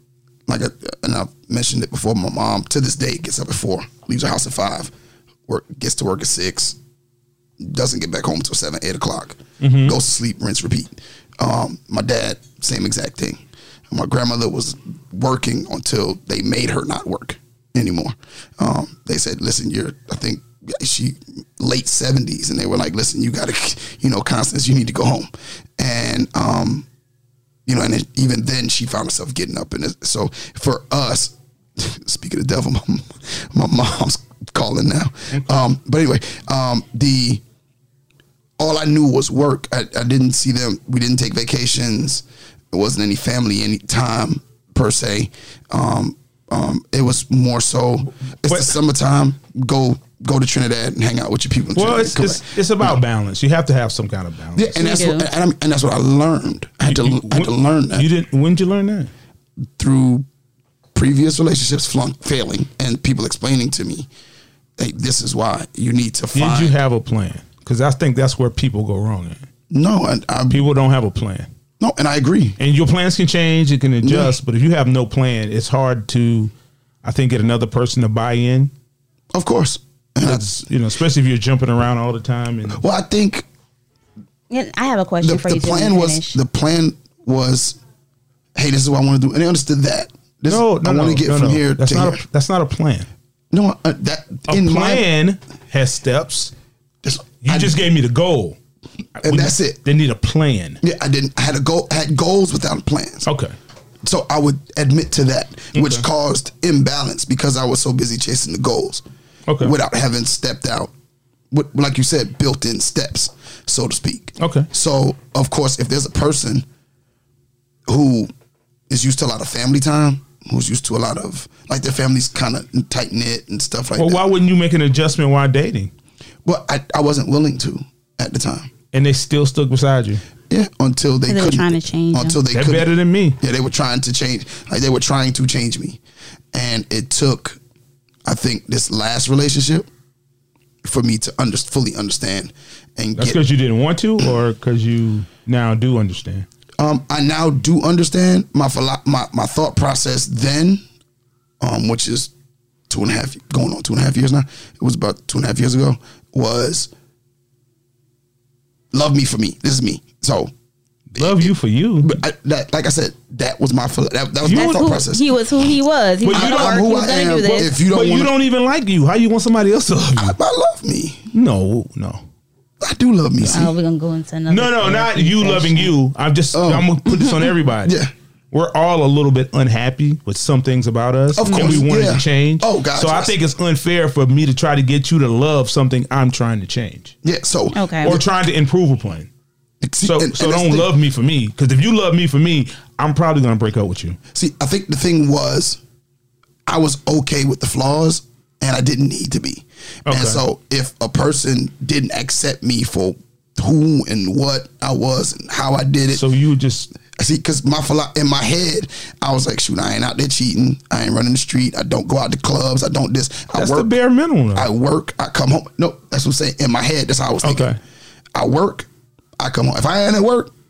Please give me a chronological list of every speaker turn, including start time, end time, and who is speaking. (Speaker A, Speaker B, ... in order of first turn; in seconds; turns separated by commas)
Speaker A: 0.5-4.9, Speaker A: 5.5-6.8, Speaker A: 7.6-26.9, Speaker B: 9.6-10.0, Speaker A: 27.6-37.4, Speaker B: 35.3-35.6, Speaker A: 38.6-53.0, Speaker B: 48.5-48.7, Speaker B: 51.8-54.9, Speaker A: 54.5-58.1, Speaker C: 54.8-55.3, Speaker B: 56.8-59.1, Speaker A: 59.8-60.2, Speaker A: 60.9-64.1, Speaker A: 64.8-66.8, Speaker B: 66.3-69.4, Speaker A: 69.7-70.7, Speaker B: 70.5-71.5, Speaker A: 71.8-72.6, Speaker B: 72.6-76.5, Speaker A: 74.0-74.3, Speaker B: 77.0-78.7, Speaker A: 79.3-80.5, Speaker B: 80.2-82.8, Speaker A: 82.7-83.5, Speaker C: 84.5-86.4, Speaker A: 85.2-87.8, Speaker A: 88.5-92.2, Speaker B: 90.5-93.1, Speaker A: 93.5-95.0, Speaker B: 94.5-96.5, Speaker A: 97.0-97.8, Speaker B: 97.4-98.6, Speaker B: 99.2-100.8, Speaker A: 99.2-99.8, Speaker A: 100.8-103.3, Speaker B: 103.2-103.5, Speaker A: 104.0-109.0, Speaker B: 105.7-106.0, Speaker B: 109.5-109.7, Speaker A: 109.6-110.9, Speaker A: 111.5-116.6, Speaker B: 114.4-114.7, Speaker A: 117.9-118.3, Speaker A: 118.9-124.2, Speaker B: 124.0-125.9, Speaker A: 126.4-128.7, Speaker B: 128.9-130.2, Speaker A: 130.5-136.0, Speaker C: 131.3-132.4, Speaker B: 132.5-133.4, Speaker A: 136.5-137.6, Speaker A: 138.2-139.9, Speaker A: 140.8-143.4, Speaker B: 143.2-146.5, Speaker A: 146.8-150.8, Speaker A: 151.6-152.3, Speaker A: 152.9-156.9, Speaker A: 158.9-160.5, Speaker B: 161.1-162.2, Speaker A: 161.2-165.3, Speaker B: 164.4-164.9, Speaker C: 164.4-167.7, Speaker B: 166.2-166.9, Speaker A: 166.3-168.3, Speaker B: 167.5-170.4, Speaker A: 170.1-171.3, Speaker B: 171.3-172.2, Speaker A: 172.8-173.7, Speaker B: 173.4-173.7, Speaker C: 173.5-175.9, Speaker B: 174.5-187.1, Speaker A: 176.5-178.1, Speaker A: 181.3-183.3, Speaker A: 187.2-188.2, Speaker C: 187.7-188.2, Speaker B: 188.0-189.3, Speaker A: 189.8-190.9, Speaker B: 190.0-194.2, Speaker A: 194.3-195.8, Speaker A: 196.7-206.2, Speaker B: 200.1-200.4, Speaker B: 206.1-206.9, Speaker A: 207.1-213.9, Speaker B: 213.5-214.7, Speaker A: 214.5-217.7, Speaker B: 217.4-217.8, Speaker A: 218.3-218.9, Speaker A: 219.4-220.5